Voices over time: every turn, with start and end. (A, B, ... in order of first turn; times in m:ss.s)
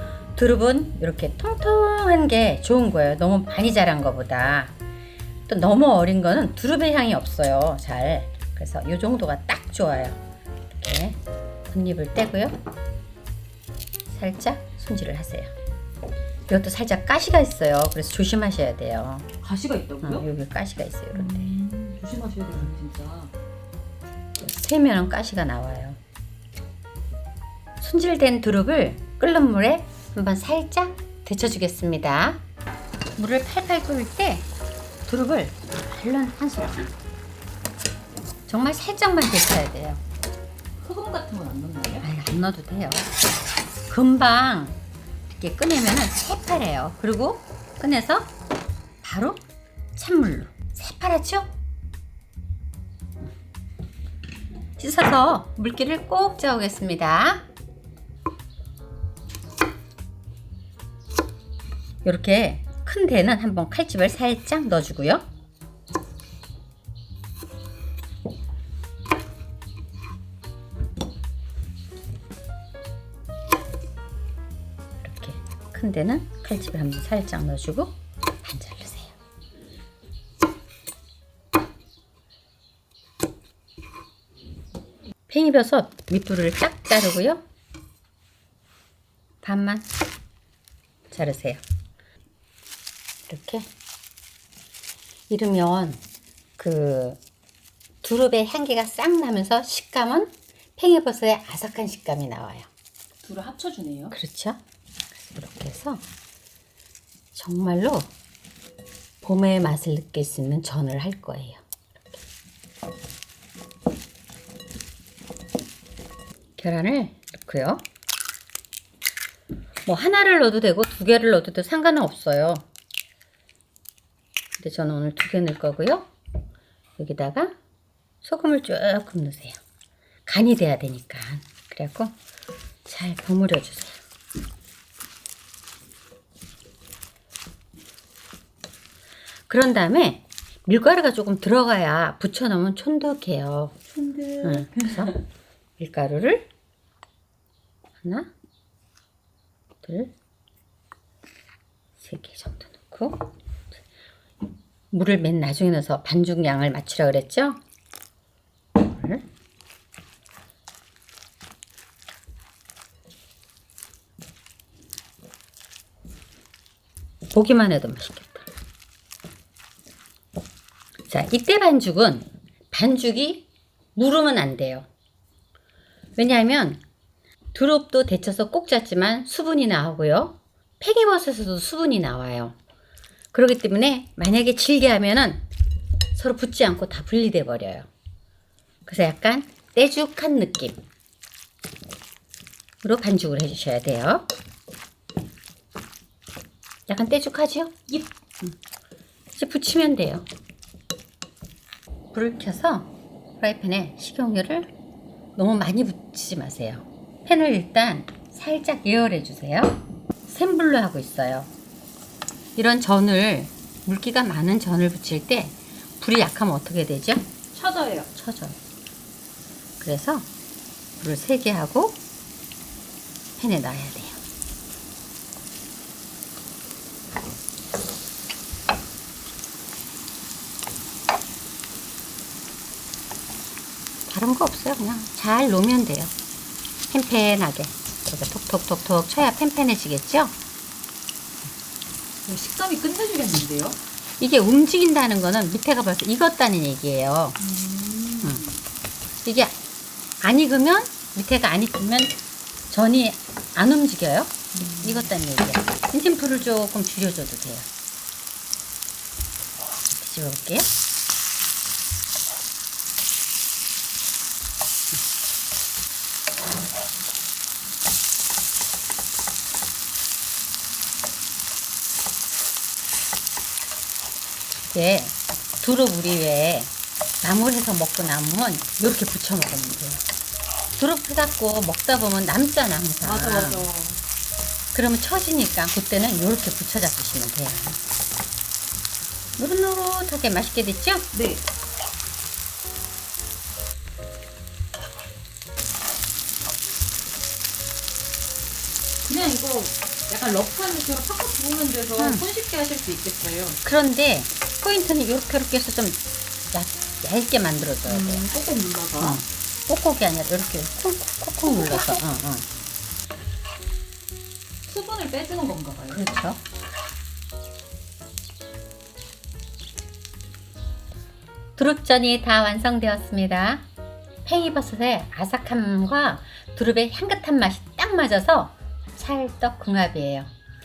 0:00.4-0:04.8 A
0:05.5-0:10.2 A
0:10.7-0:12.5 A
0:14.1-0:15.5 A
0:16.5-0:19.3 A
0:19.4-0:20.2 B
0:20.0-0:21.5 A
0:21.1-0:23.3 B
0:24.4-0:26.0 A
0:27.8-0:32.4 A
0:33.2-0:34.5 A
0:35.1-0:36.9 A
0:38.5-0:40.0 A
0:40.8-0:42.1 B
0:42.0-0:43.1 A
0:43.9-0:44.8 A
0:45.3-0:48.3 A
0:49.0-0:49.4 A
0:50.0-0:51.5 A
0:54.8-0:57.4 A
1:02.0-1:05.2 A
1:15.0-1:19.2 A
1:25.3-1:27.4 A
1:29.4-1:29.9 A
1:31.1-1:31.6 A
1:33.3-1:33.7 A
1:35.3-1:36.0 A
1:36.6-1:37.2 A
1:38.0-1:42.7 A
1:43.2-1:44.1 B
1:44.1-1:44.6 A
1:45.1-1:46.0 A
1:47.3-1:48.1 A
1:49.2-1:51.6 A
1:56.6-1:57.8 A
1:59.9-2:02.6 A
2:04.6-2:06.1 A
2:07.0-2:07.5 A
2:08.2-2:09.6 A
2:10.3-2:12.2 A
2:12.9-2:14.0 A
2:19.5-2:23.8 A
2:23.9-2:25.2 B
2:24.4-2:25.2 A
2:25.8-2:26.5 A
2:28.0-2:28.3 A
2:29.8-2:30.1 A
2:32.0-2:33.3 A
2:34.9-2:37.6 A
2:38.8-2:39.2 A
2:47.3-2:48.5 A
2:51.1-2:54.9 A
2:56.2-2:56.8 A
2:57.5-3:02.6 A
3:03.3-3:05.4 A
3:06.1-3:07.9 A
3:08.9-3:10.8 A
3:12.8-3:14.3 A
3:16.9-3:17.8 A
3:19.4-3:20.3 A
3:22.1-3:24.7 A
3:25.4-3:31.5 A
3:32.6-3:37.3 A
3:37.5-3:38.1 B
3:38.1-3:38.6 A
3:39.8-3:40.3 A
3:41.0-3:42.0 A
3:43.4-3:44.2 A
3:54.1-3:56.1 A
3:56.9-4:00.4 A
4:02.2-4:03.8 B
4:04.2-4:07.4 A
4:07.4-4:08.6 B
4:09.2-4:09.6 A
4:10.2-4:12.2 A
4:12.7-4:17.7 A
4:14.5-4:15.1 B
4:19.9-4:20.7 A
4:34.7-4:40.0 A
4:40.8-4:43.7 A
4:43.0-4:44.0 B
4:44.7-4:47.8 A
4:49.4-4:51.1 A
4:51.1-4:51.4 B
4:59.0-5:03.6 B
5:02.0-5:02.2 A
5:03.6-5:06.0 A
5:06.5-5:08.2 A
5:07.9-5:09.2 B
5:09.0-5:12.5 A
5:11.4-5:12.0 B
5:14.7-5:16.1 B
5:15.9-5:16.4 A
5:21.6-5:23.6 A
5:24.2-5:30.3 A